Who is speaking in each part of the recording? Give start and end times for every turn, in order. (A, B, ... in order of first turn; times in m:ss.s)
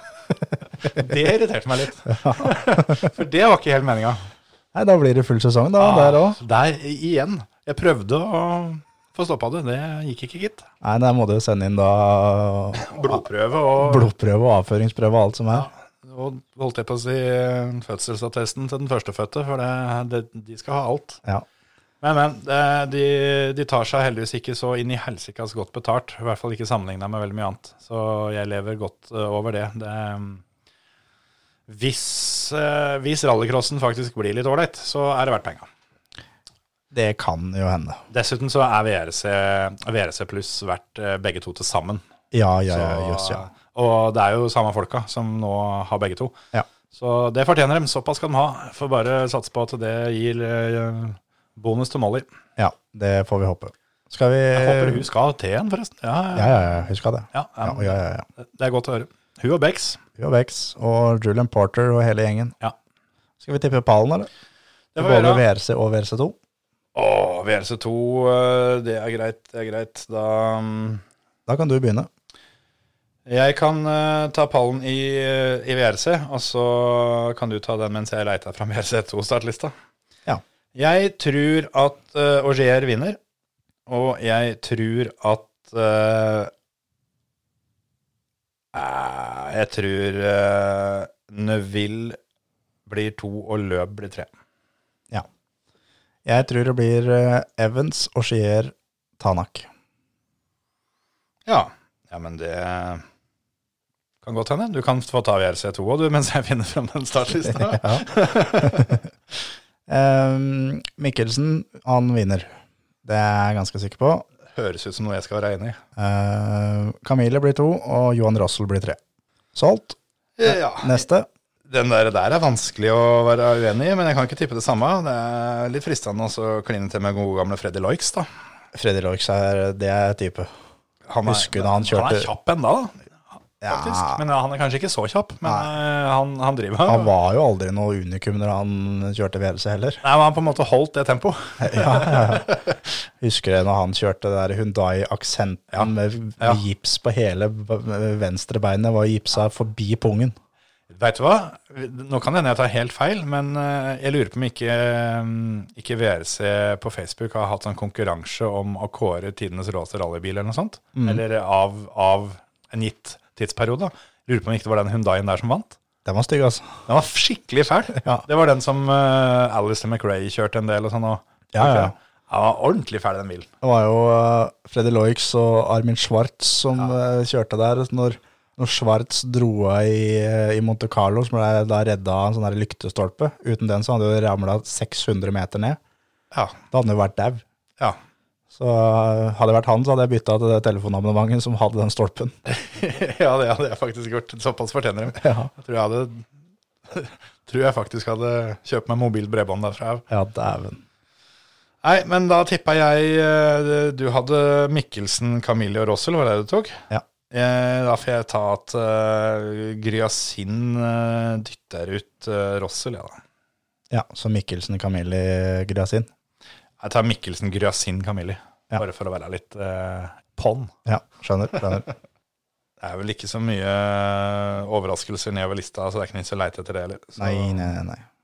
0:00.8-0:04.2 A
0:02.1-0:03.0 B
0:04.7-0:06.4 B
0:05.8-0:10.7 A
0:10.8-0:13.2 B
0:12.7-0:14.1 A
0:13.8-0:15.7 B
0:15.5-0:21.2 A
0:22.0-0:30.4 A
0:31.7-0:35.7 A
0:36.9-0:38.0 B
0:38.1-0:42.0 A
0:42.3-0:43.4 B
0:42.7-0:46.4 A
0:46.9-0:52.3 A
0:52.6-0:55.0 B
0:54.5-0:56.6 A
0:56.4-0:58.3 B
0:57.3-1:00.0 A
1:00.2-1:02.6 B
1:03.4-1:04.3 B
1:05.0-1:05.4 A
1:05.0-1:06.4 B
1:07.0-1:11.0 A
1:11.5-1:12.1 B
1:13.3-1:19.7 A
1:20.7-1:23.2 A
1:23.9-1:26.5 A
1:28.7-1:32.2 A
1:32.9-1:34.3 A
1:36.2-1:39.7 B
1:41.4-1:43.0 A
1:44.2-1:49.0 A
1:47.5-1:48.0 B
1:48.6-1:49.0 B
1:49.9-1:52.5 B
1:53.0-1:54.3 B
1:54.5-1:55.8 A
1:56.0-1:59.0 B
1:59.5-2:01.3 B
2:00.4-2:01.0 A
2:01.7-2:08.3 A
2:08.7-2:10.5 B
2:11.1-2:13.1 A
2:11.2-2:12.3 B
2:13.6-2:14.2 B
2:13.7-2:17.1 A
2:16.9-2:20.0 B
2:20.0-2:22.7 A
2:21.6-2:22.6 B
2:23.2-2:30.3 B
2:25.7-2:26.6 A
2:30.9-2:45.8 A
2:41.0-2:41.2 B
2:46.0-2:46.8 B
2:46.9-2:53.5 A
2:48.0-2:48.2 B
2:51.5-2:51.9 B
2:53.6-3:05.8 B
3:06.7-3:07.4 B
3:08.5-3:12.3 B
3:12.4-3:16.3 A
3:15.2-3:15.5 B
3:16.9-3:20.0 A
3:20.1-3:20.8 B
3:21.8-3:33.2 A
3:33.9-3:36.1 B
3:36.8-3:40.7 A
3:40.9-3:41.9 B
3:42.8-3:47.7 A
3:47.2-3:48.0 B